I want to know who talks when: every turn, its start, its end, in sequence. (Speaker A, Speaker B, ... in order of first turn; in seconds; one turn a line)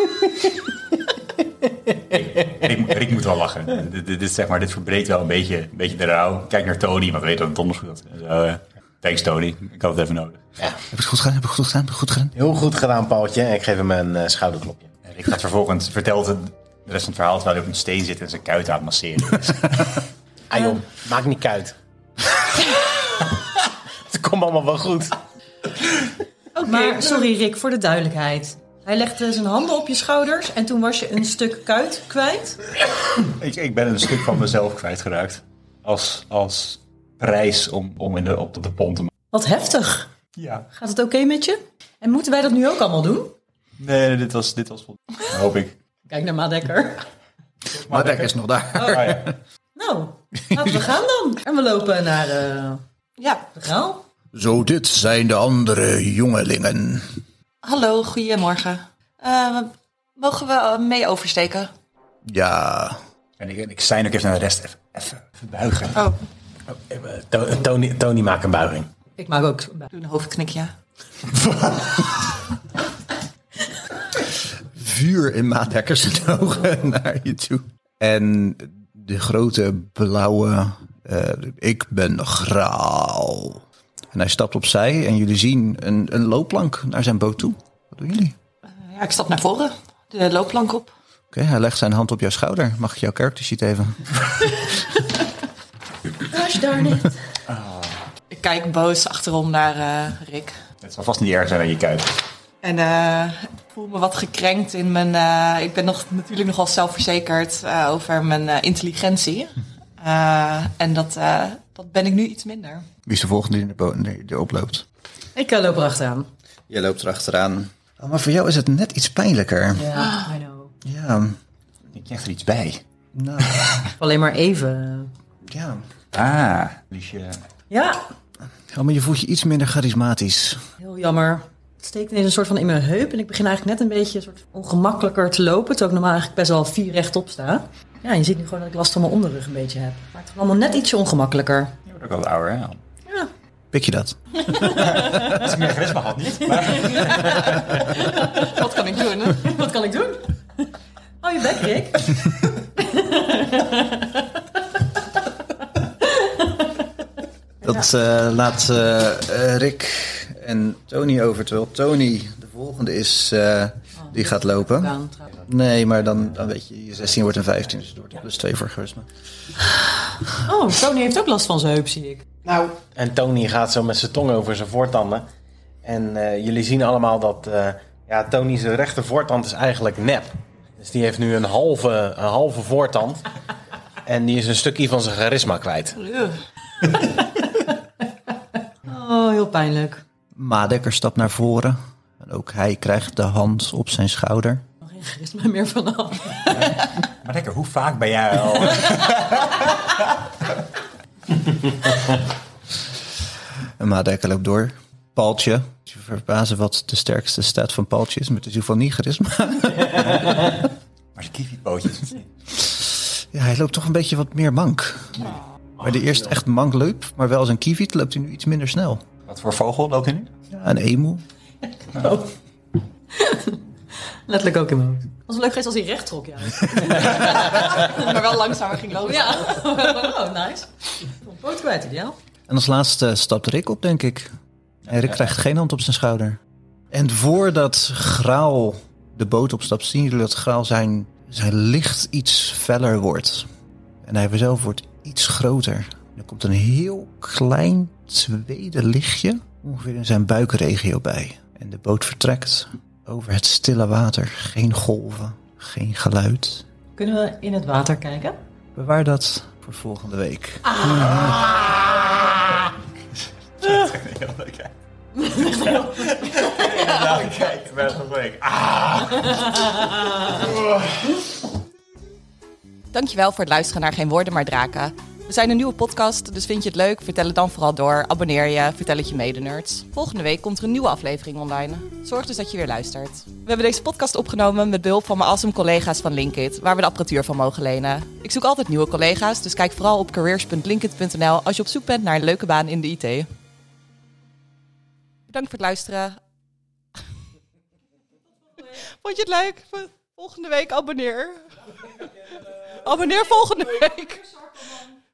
Speaker A: 2.0-10.4
Speaker B: 10.9-12.3
Speaker C: 12.4-14.9
Speaker A: 15.1-20.0
Speaker C: 20.5-21.8
Speaker C: 22.5-23.4
Speaker C: 24.1-25.1
Speaker D: 26.6-32.6
Speaker A: 33.2-39.1
Speaker D: 39.3-40.1
Speaker A: 40.4-40.7
Speaker D: 40.7-43.4
Speaker A: 43.8-45.8
Speaker D: 46.1-47.1
Speaker A: 47.7-49.3
Speaker B: 47.9-49.4
Speaker D: 48.8-49.2
Speaker D: 49.8-52.8
Speaker E: 53.2-53.4
Speaker D: 53.5-54.0
Speaker B: 54.3-57.1
Speaker E: 57.6-61.7
Speaker B: 62.3-63.0
Speaker A: 63.4-66.0
Speaker C: 66.7-68.9
Speaker D: 69.2-69.9
Speaker E: 69.9-70.7
Speaker A: 71.4-71.9
Speaker B: 74.7-88.4
Speaker E: 88.7-90.9
Speaker B: 91.3-94.1
Speaker D: 96.3-97.2
Speaker A: 97.5-98.0
Speaker E: 98.3-100.6
Speaker A: 100.8-102.1
Speaker E: 102.6-112.9
Speaker B: 113.1-114.8
Speaker D: 115.4-116.3
Speaker B: 116.7-120.0
Speaker D: 119.7-120.7
Speaker B: 120.8-121.4
Speaker A: 121.9-122.8
Speaker B: 123.2-123.8
Speaker A: 123.5-123.8
Speaker D: 124.0-125.1
Speaker B: 125.5-125.8
Speaker A: 126.1-127.5
Speaker D: 127.7-128.0
Speaker B: 128.7-130.6
Speaker D: 130.8-141.8
Speaker A: 141.9-142.8
Speaker B: 143.7-144.2
Speaker D: 144.4-145.5
Speaker A: 144.6-147.8
Speaker D: 146.5-148.6
Speaker E: 147.9-149.5
Speaker D: 149.2-150.4
Speaker D: 151.2-154.4
Speaker D: 156.0-156.8
Speaker B: 157.6-169.1
Speaker D: 164.0-165.3
Speaker D: 170.3-172.3
Speaker C: 172.4-175.3
Speaker C: 175.8-183.2
Speaker C: 184.0-186.1
Speaker E: 186.1-186.4
Speaker D: 188.8-190.0
Speaker B: 190.3-194.6
Speaker D: 194.8-196.8
Speaker A: 196.5-200.2
Speaker B: 203.8-210.6
Speaker A: 211.2-212.3
Speaker B: 212.7-219.0
Speaker A: 219.3-220.3
Speaker B: 220.5-221.2
Speaker D: 221.9-222.3
Speaker D: 223.1-223.6
Speaker D: 224.3-227.9
Speaker E: 227.2-229.8
Speaker D: 229.0-232.2
Speaker B: 232.5-234.3
Speaker B: 234.9-236.4
Speaker B: 236.9-243.5
Speaker B: 244.0-256.7
Speaker D: 257.0-258.4
Speaker B: 258.8-261.4
Speaker D: 260.8-261.1
Speaker A: 260.9-262.7
Speaker A: 263.6-264.7
Speaker D: 265.2-266.7
Speaker A: 265.3-271.2
Speaker D: 269.4-270.2
Speaker E: 272.9-293.3
Speaker E: 295.3-296.2
Speaker E: 298.9-301.5
Speaker E: 302.6-304.4